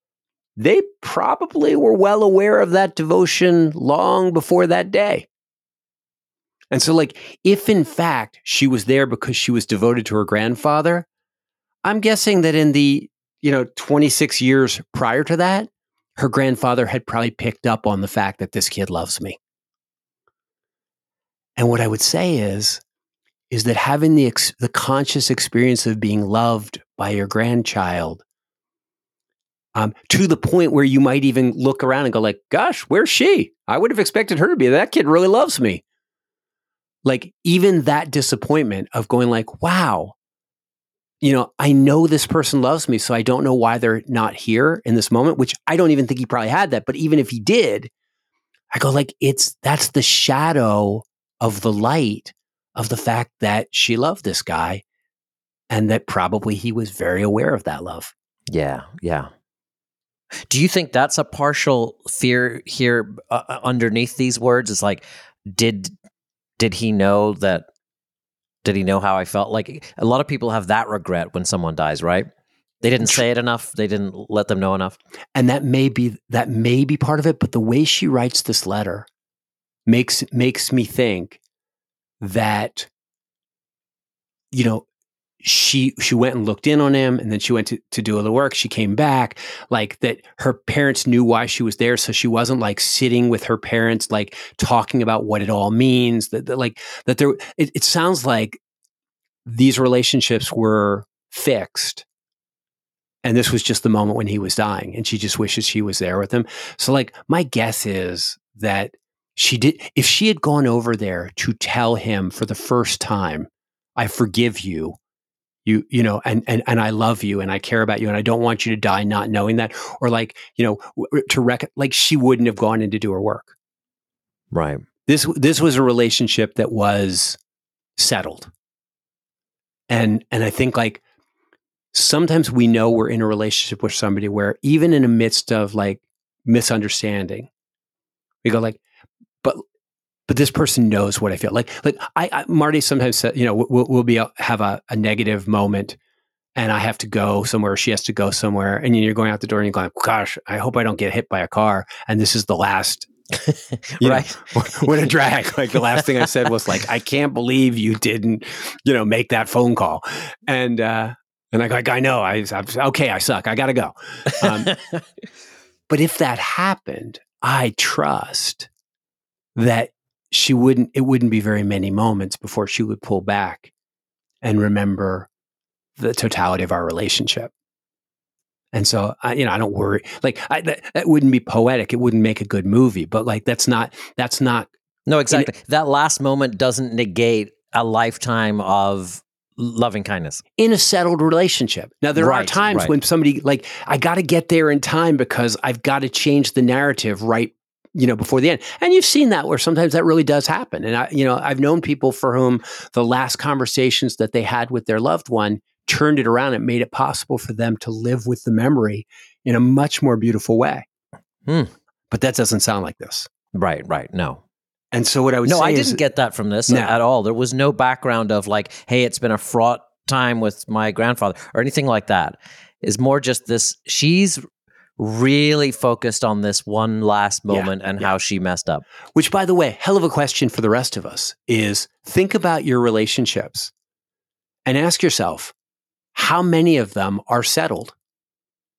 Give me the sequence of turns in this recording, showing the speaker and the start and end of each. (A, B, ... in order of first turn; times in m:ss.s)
0:00.6-0:05.3 A
0:06.7-0:11.0 A
0:11.8-0:19.4 A
0:21.6-0:22.8 A
0:23.5-0:28.2 A
0:29.7-0:35.8 A
0:37.0-0:40.1 A
0:41.2-0:47.9 A
0:48.7-0:54.8 A
0:55.7-0:58.1 A
0:58.5-0:59.3 B
1:00.5-1:05.9 B
1:06.6-1:07.7 B
1:08.6-1:12.3 B
1:12.8-1:15.0 B
1:15.3-1:19.1 A
1:19.8-1:21.4 A
1:22.2-1:22.9 A
1:24.5-1:24.8 A
1:25.4-1:38.6 A
1:39.4-1:42.0 A
1:43.2-1:55.0 A
1:55.6-2:03.5 A
2:04.5-2:04.8 B
2:05.0-2:07.4 A
2:08.0-2:08.5 A
2:09.9-2:11.0 A
2:11.9-2:17.5 A
2:18.4-2:18.8 A
2:20.3-2:26.0 A
2:26.5-2:33.1 A
2:33.4-2:35.1 B
2:34.0-2:44.8 A
2:45.9-2:48.7 A
2:49.5-2:53.7 A
2:54.4-2:55.3 A
2:56.0-2:57.5 A
2:58.7-3:04.7 A
3:05.1-3:10.4 B
3:10.6-3:30.8 A
3:12.2-3:12.9 B
3:31.5-3:31.7 B
3:32.1-3:33.3 A
3:33.5-3:34.4 B
3:34.9-3:36.0 A
3:35.4-3:44.4 B
3:36.7-3:36.9 A
3:45.0-3:48.8 B
3:47.5-3:48.1 A
3:49.1-3:53.7 A
3:54.6-3:55.5 A
3:56.1-3:57.9 A